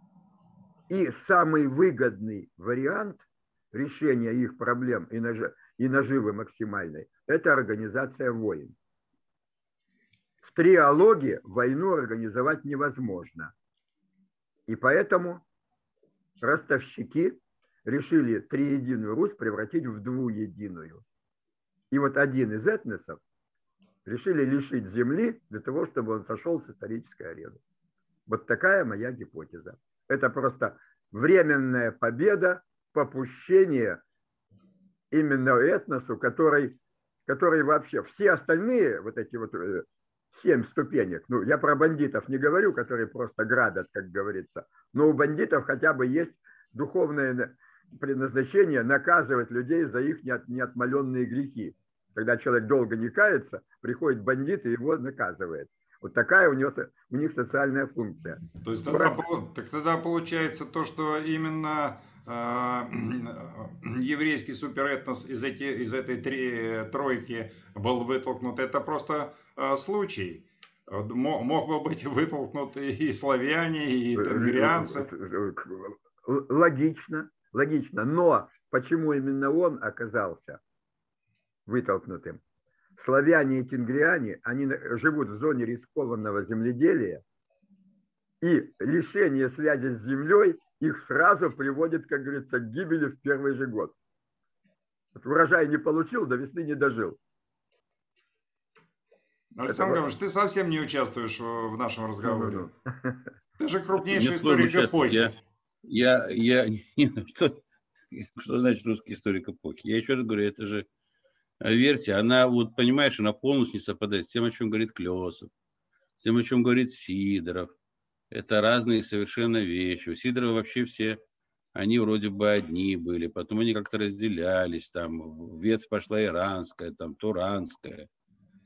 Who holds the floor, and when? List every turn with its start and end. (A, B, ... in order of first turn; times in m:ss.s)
0:00.9-0:08.8 A
0:10.4-0:13.5 A
0:14.7-0:15.4 A
0:16.4-0:21.0 A
0:21.9-0:23.2 A
0:24.0-0:27.6 A
0:28.3-0:34.0 A
0:35.1-0:59.3 A
0:58.6-1:15.1 B
1:14.1-1:20.6 A
1:21.6-1:22.4 A
1:23.0-1:27.2 A
1:28.4-1:34.0 A
1:35.1-1:37.2 A
1:39.5-1:42.6 B
1:39.7-1:40.0 A
1:42.2-1:43.3 A
1:43.6-1:45.3 B
1:44.0-1:45.3 C
1:45.8-1:50.9 C
1:51.6-1:55.5 C
1:56.2-1:57.7 C
1:58.3-2:01.2 C
2:01.7-2:08.1 C